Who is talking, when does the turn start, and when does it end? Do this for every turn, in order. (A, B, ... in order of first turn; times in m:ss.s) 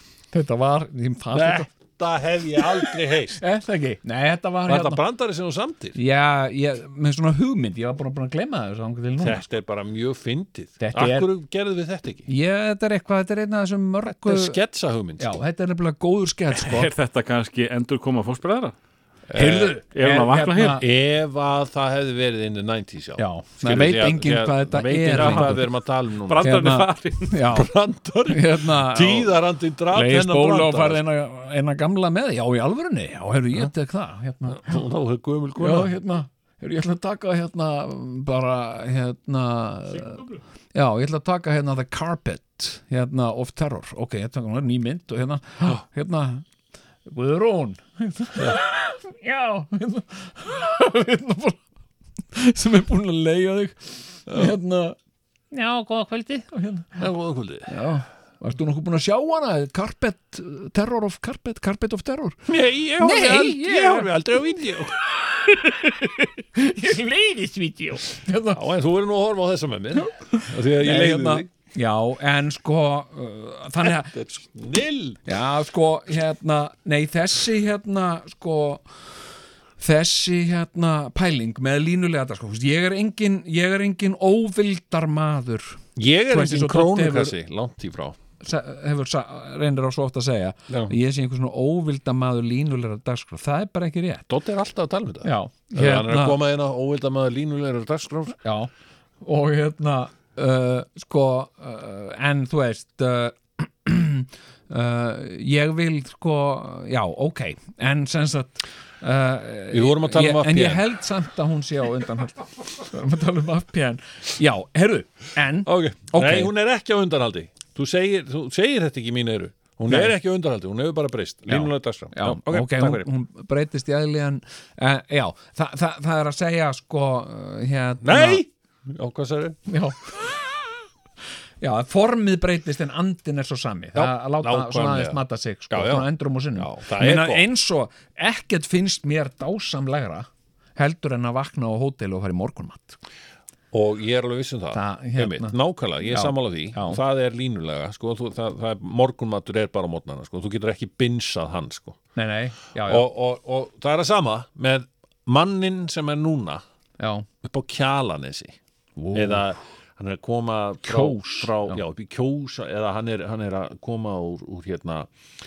0:00.3-0:01.7 A
0:01.3-0:03.4 B
0:02.6-0:05.0 A
0:04.7-0:06.0 B
0:05.9-0:09.5 A
0:09.2-0:12.3 B
0:10.8-0:11.3 A
0:12.3-0:14.6 A
0:14.0-0:15.3 B
0:15.2-0:16.9 A
0:16.5-0:18.7 C
0:19.3-0:19.8 B
0:19.3-0:20.8 A
0:19.9-0:20.8 C
0:20.8-0:26.6 B
0:23.2-0:25.7 A
0:25.1-0:25.7 C
0:26.2-0:27.3 C
0:26.4-0:27.7 A
0:27.5-0:31.0 B
0:28.3-0:29.4 A
0:29.9-0:34.8 A
0:34.5-0:35.9 B
0:35.6-0:46.4 A
0:47.0-0:51.6 A
0:52.3-0:55.0 A
0:55.5-0:57.0 A
0:57.0-0:57.8 B
0:57.7-1:02.4 A
1:02.5-1:05.0 B
1:03.0-1:04.6 A
1:05.2-1:08.6 A
1:08.5-1:11.5 B
1:10.0-1:14.2 A
1:13.8-1:15.2 B
1:15.2-1:19.0 A
1:19.8-1:27.4 A
1:26.0-1:28.2 B
1:28.4-1:34.2 A
1:30.7-1:31.0 B
1:34.3-1:38.4 B
1:35.2-1:36.4 A
1:38.4-1:38.7 A
1:39.2-1:56.5 A
1:49.7-1:50.8 B
1:55.6-2:03.1 B
1:59.9-2:00.1 A
2:01.5-2:08.4 A
2:08.0-2:09.6 B
2:09.7-2:10.5 A
2:11.6-2:23.0 A
2:13.9-2:17.4 B
2:23.7-2:32.0 B
2:24.7-2:27.0 A
2:32.1-2:33.1 A
2:32.8-2:36.6 B
2:37.0-2:37.3 A
2:37.4-2:38.6 B
2:39.0-2:39.5 A
2:39.1-2:45.1 B
2:40.8-2:41.8 A